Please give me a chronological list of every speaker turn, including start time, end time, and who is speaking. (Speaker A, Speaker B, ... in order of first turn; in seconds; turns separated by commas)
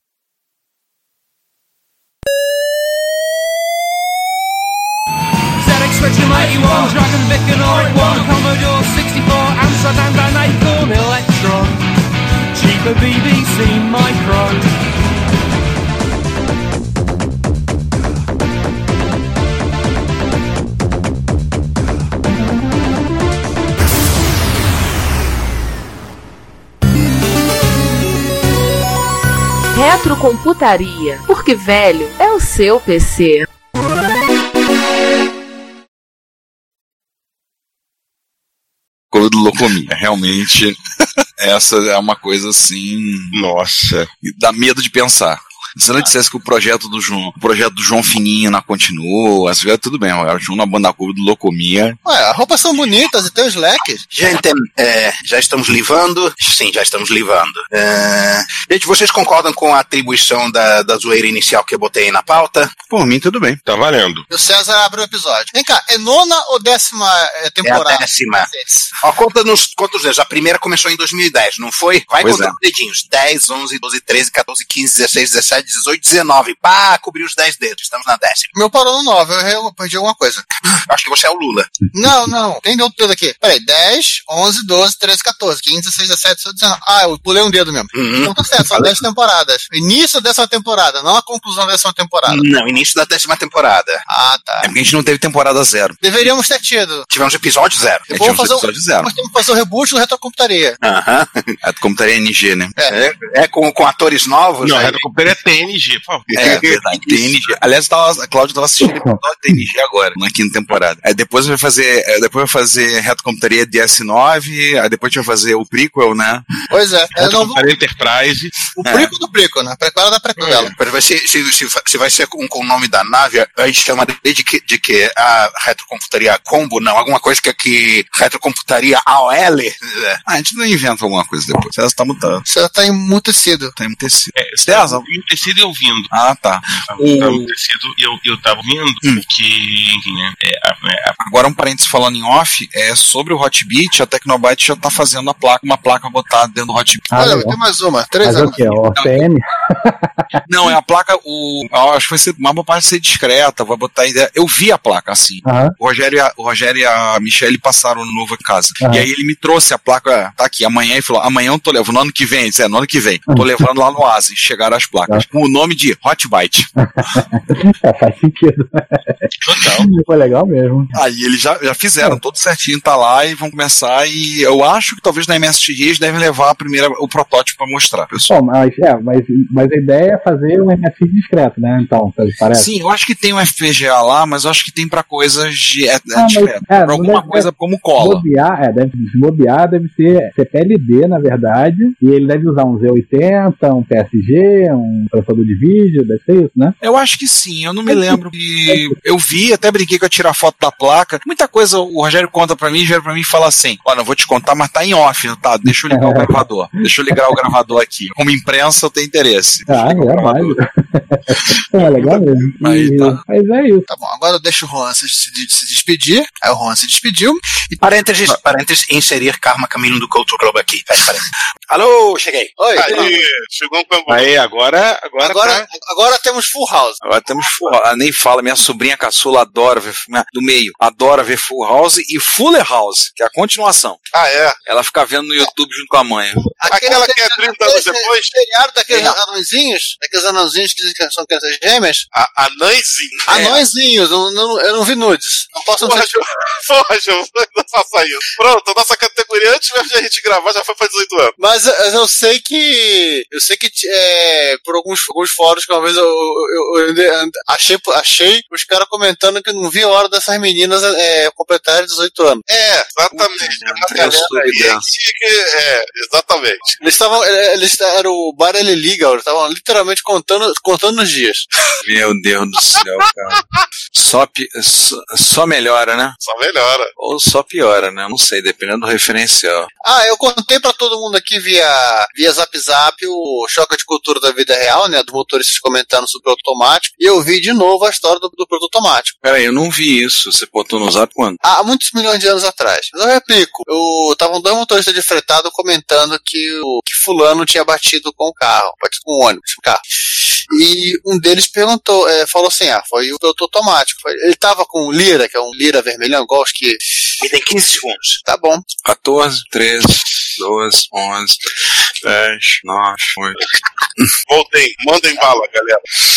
Speaker A: 5.6-11.8, Speaker A: 12.5-14.7, Speaker B: 29.7-33.5, Speaker C: 39.1-40.8, Speaker C: 41.4-43.4, Speaker D: 43.3-44.1, Speaker C: 44.2-52.0, Speaker E: 52.0-54.0, Speaker F: 54.1-62.8, Speaker C: 62.9-63.6, Speaker D: 63.6-64.2, Speaker E: 64.3-68.9, Speaker F: 67.6-78.5, Speaker C: 72.2-72.5, Speaker E: 78.5-80.5, Speaker F: 80.9-81.7, Speaker E: 81.9-92.4, Speaker F: 87.9-88.9, Speaker F: 92.2-94.0, Speaker E: 94.1-94.7, Speaker C: 94.6-96.0, Speaker E: 96.0-97.1, Speaker F: 97.1-98.1, Speaker C: 98.1-99.1, Speaker E: 98.1-100.8, Speaker F: 100.8-101.5, Speaker C: 101.6-102.7, Speaker F: 102.9-105.0, Speaker D: 104.6-106.6, Speaker F: 106.3-107.4, Speaker C: 106.3-116.4, Speaker E: 116.7-117.6, Speaker D: 117.1-118.5, Speaker E: 118.7-120.7, Speaker C: 118.8-119.1, Speaker F: 120.7-130.2, Speaker C: 130.2-132.4, Speaker E: 132.5-133.7, Speaker C: 133.8-135.0, Speaker D: 134.3-136.1, Speaker C: 136.1-137.5, Speaker D: 136.8-141.2, Speaker C: 141.2-147.1, Speaker G: 147.1-147.5, Speaker E: 147.2-148.6, Speaker G: 148.2-150.1, Speaker C: 148.9-149.2, Speaker C: 150.4-166.7, Speaker G: 155.4-155.7, Speaker G: 158.8-159.1, Speaker G: 166.8-170.9, Speaker D: 169.4-169.9, Speaker C: 170.9-178.3, Speaker G: 178.3-182.7, Speaker C: 182.5-188.2, Speaker G: 186.1-196.7, Speaker C: 196.8-210.6, Speaker G: 197.9-198.9, Speaker G: 205.7-206.4, Speaker G: 207.1-207.4, Speaker G: 209.7-213.8, Speaker C: 211.8-213.2, Speaker E: 213.9-217.8, Speaker F: 217.8-222.5, Speaker E: 222.6-223.2, Speaker H: 222.7-224.3, Speaker D: 224.1-225.6, Speaker E: 225.2-227.0, Speaker C: 227.0-234.0, Speaker H: 234.1-234.6, Speaker C: 234.7-236.4, Speaker E: 236.6-242.0, Speaker H: 236.7-238.3, Speaker H: 242.1-243.4, Speaker E: 243.3-246.2, Speaker C: 243.3-243.6, Speaker H: 245.8-251.3, Speaker E: 251.4-262.4, Speaker H: 262.5-266.7, Speaker C: 263.1-264.8, Speaker E: 263.9-264.7, Speaker E: 266.8-271.5, Speaker C: 271.8-276.1, Speaker H: 276.2-276.9, Speaker C: 277.0-279.7, Speaker E: 279.8-289.1, Speaker C: 289.2-291.4, Speaker E: 291.4-299.8, Speaker E: 300.5-306.8, Speaker F: 307.2-308.2, Speaker E: 308.2-308.6, Speaker C: 308.8-311.4, Speaker C: 312.0-313.4, Speaker H: 314.3-315.8